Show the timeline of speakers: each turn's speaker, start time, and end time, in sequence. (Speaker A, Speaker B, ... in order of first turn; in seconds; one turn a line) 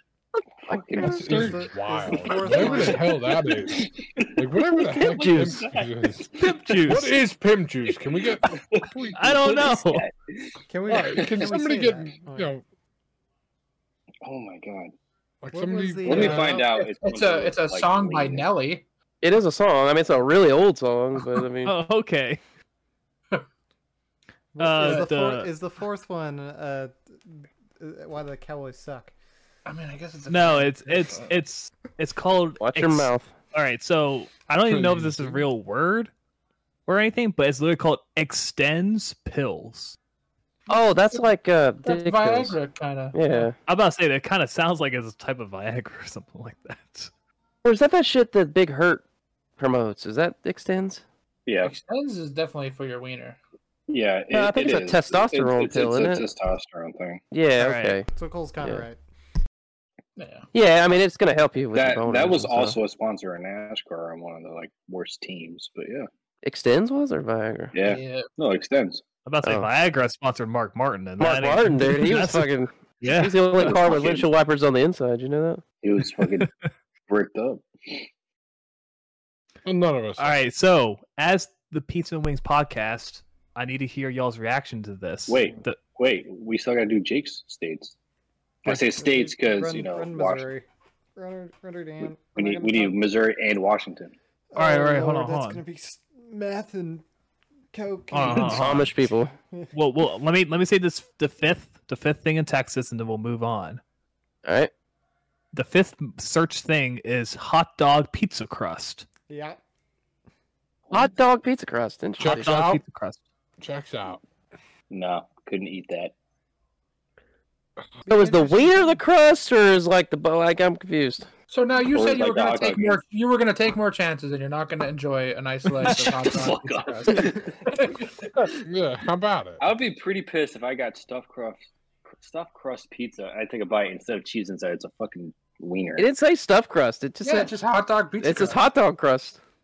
Speaker A: 0.7-1.7
Speaker B: 1.0-3.3
Speaker C: 1.0-9.4
Speaker A: 2.6-3.0
Speaker A: 3.5-4.3
Speaker D: 4.9-5.6
Speaker A: 5.0-6.3
Speaker E: 6.4-7.2
Speaker A: 8.2-10.6
Speaker E: 9.1-10.1
Speaker B: 10.7-12.5
Speaker C: 10.9-12.6
Speaker A: 11.1-11.5
Speaker A: 14.2-14.9
Speaker C: 15.4-16.6
Speaker B: 15.5-16.6
Speaker A: 16.1-18.5
Speaker F: 16.3-18.8
Speaker D: 19.2-21.7
Speaker E: 21.6-22.4
Speaker B: 24.6-29.1
Speaker E: 24.6-25.5
Speaker F: 24.8-25.1
Speaker F: 29.7-31.4
Speaker E: 30.3-36.1
Speaker D: 32.6-33.3
Speaker C: 34.7-35.5
Speaker E: 36.9-40.0
Speaker D: 40.7-42.6
Speaker F: 41.8-43.5
Speaker D: 43.1-43.5
Speaker E: 43.7-47.1
Speaker D: 47.6-49.0
Speaker D: 49.6-51.0
Speaker A: 51.5-51.7
Speaker F: 51.6-53.4
Speaker A: 53.9-57.2
Speaker D: 54.3-56.3
Speaker D: 57.3-58.1
Speaker E: 57.6-58.0
Speaker B: 58.1-59.0
Speaker D: 58.6-58.9
Speaker F: 60.2-60.5
Speaker D: 60.5-62.8
Speaker A: 61.7-66.1
Speaker D: 66.4-67.8
Speaker A: 67.7-69.0
Speaker F: 67.8-68.3
Speaker E: 69.3-72.5
Speaker D: 69.4-69.7
Speaker D: 71.2-75.6
Speaker E: 73.0-73.5
Speaker A: 73.5-74.3
Speaker A: 75.8-76.5
Speaker A: 77.1-78.1
Speaker C: 79.6-80.4
Speaker E: 80.2-85.8
Speaker A: 85.3-88.0
Speaker A: 88.6-90.5
Speaker B: 88.7-90.6
Speaker B: 91.2-93.0
Speaker A: 92.3-94.1
Speaker B: 94.5-97.0
Speaker E: 94.6-95.6
Speaker B: 97.7-98.7
Speaker E: 98.1-98.9
Speaker D: 98.3-99.3
Speaker E: 99.7-103.8
Speaker D: 104.5-104.7
Speaker E: 105.5-109.0
Speaker B: 109.3-109.6
Speaker D: 110.9-112.5
Speaker C: 112.2-112.8
Speaker E: 112.2-113.2
Speaker C: 113.6-114.2
Speaker A: 114.9-116.1
Speaker D: 118.1-121.3
Speaker F: 118.1-119.0
Speaker F: 121.5-128.5
Speaker A: 121.9-123.0
Speaker A: 125.8-128.6
Speaker C: 128.6-129.6
Speaker A: 129.6-131.6
Speaker A: 132.1-136.1
Speaker D: 136.0-137.5
Speaker F: 137.2-138.6
Speaker D: 138.2-139.4